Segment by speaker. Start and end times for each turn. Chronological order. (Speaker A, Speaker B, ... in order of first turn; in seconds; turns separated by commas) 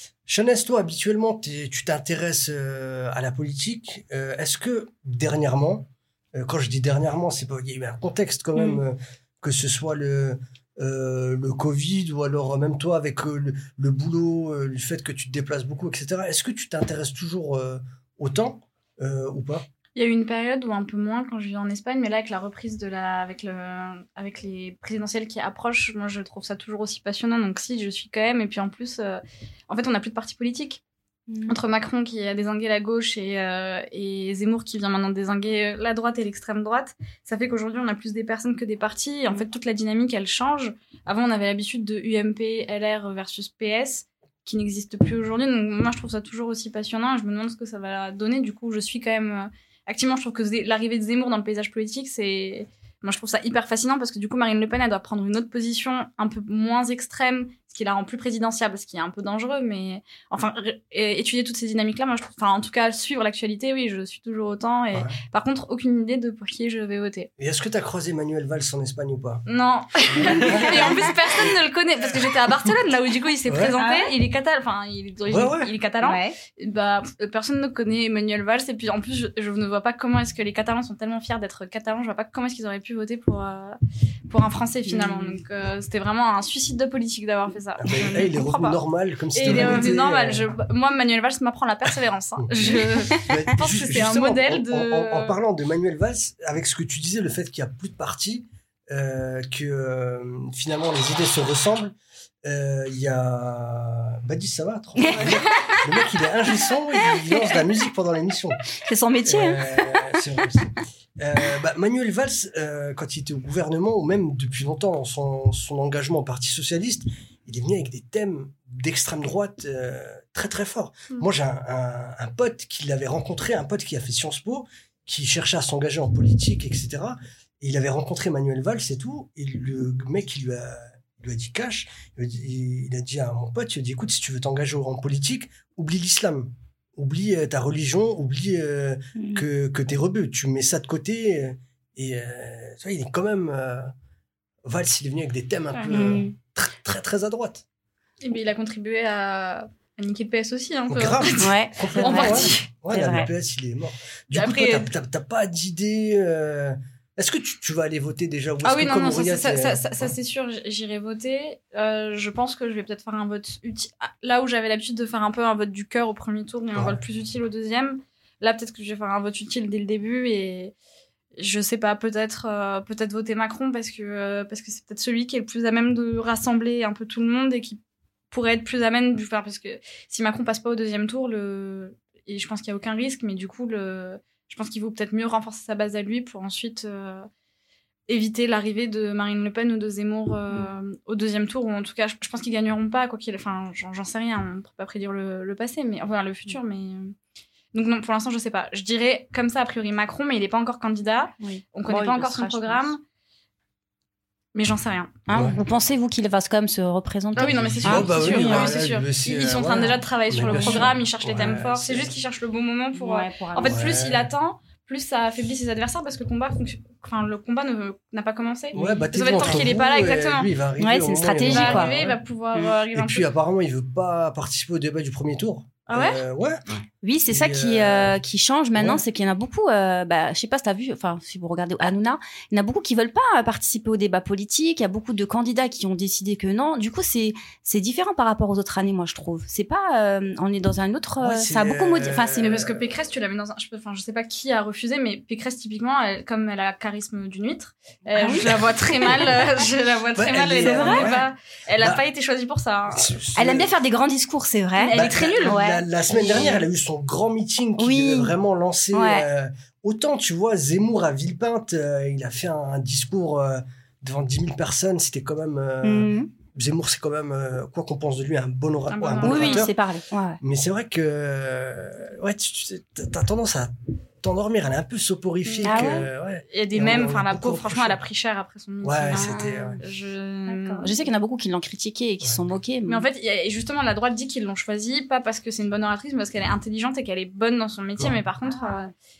Speaker A: 0.3-19.6, Speaker B: 20.0-30.8, Speaker C: 31.3-31.6, Speaker B: 31.5-67.3, Speaker A: 67.4-69.4, Speaker B: 69.5-88.8, Speaker A: 70.2-71.0, Speaker C: 70.4-71.0, Speaker A: 73.5-73.7, Speaker C: 73.8-74.2, Speaker A: 75.3-75.7, Speaker C: 76.0-76.4, Speaker C: 84.9-85.4, Speaker A: 87.8-90.5, Speaker B: 89.4-95.4, Speaker C: 89.4-89.8, Speaker A: 92.4-108.6, Speaker C: 105.0-105.8, Speaker C: 107.2-107.7, Speaker C: 108.8-110.2, Speaker A: 109.2-143.9, Speaker C: 139.2-139.4, Speaker A: 144.7-147.6, Speaker B: 145.7-146.0, Speaker C: 145.9-146.3, Speaker B: 148.2-152.7, Speaker A: 150.9-159.8, Speaker C: 151.4-153.3, Speaker B: 154.3-154.9, Speaker B: 158.6-170.7, Speaker B: 171.4-177.8, Speaker B: 178.3-187.3, Speaker B: 188.1-197.2, Speaker B: 197.7-203.0, Speaker C: 201.4-202.9, Speaker B: 204.6-205.2, Speaker C: 205.3-208.8, Speaker A: 205.3-205.6, Speaker B: 207.4-220.5, Speaker A: 207.5-212.1, Speaker C: 210.4-210.9, Speaker C: 212.9-213.8, Speaker A: 213.6-214.3, Speaker A: 218.7-222.2, Speaker C: 218.8-219.7, Speaker C: 220.8-222.0, Speaker B: 221.4-223.3, Speaker A: 222.9-226.6, Speaker B: 225.9-226.2, Speaker C: 227.0-242.6, Speaker A: 227.3-228.2, Speaker A: 241.2-242.9, Speaker B: 242.4-253.1, Speaker C: 248.2-249.3, Speaker A: 250.2-252.0, Speaker C: 250.6-251.1, Speaker A: 252.9-253.7, Speaker C: 253.4-256.6, Speaker B: 254.8-255.6, Speaker A: 254.9-269.7, Speaker C: 257.8-258.4, Speaker C: 258.9-259.3, Speaker C: 265.8-266.3, Speaker B: 268.9-269.7, Speaker C: 269.2-270.4, Speaker A: 270.4-278.0, Speaker B: 275.5-276.0, Speaker C: 275.6-276.1, Speaker B: 276.5-281.0, Speaker A: 278.8-279.8, Speaker C: 279.1-279.8, Speaker C: 280.5-283.1, Speaker B: 282.9-288.9, Speaker C: 288.5-288.8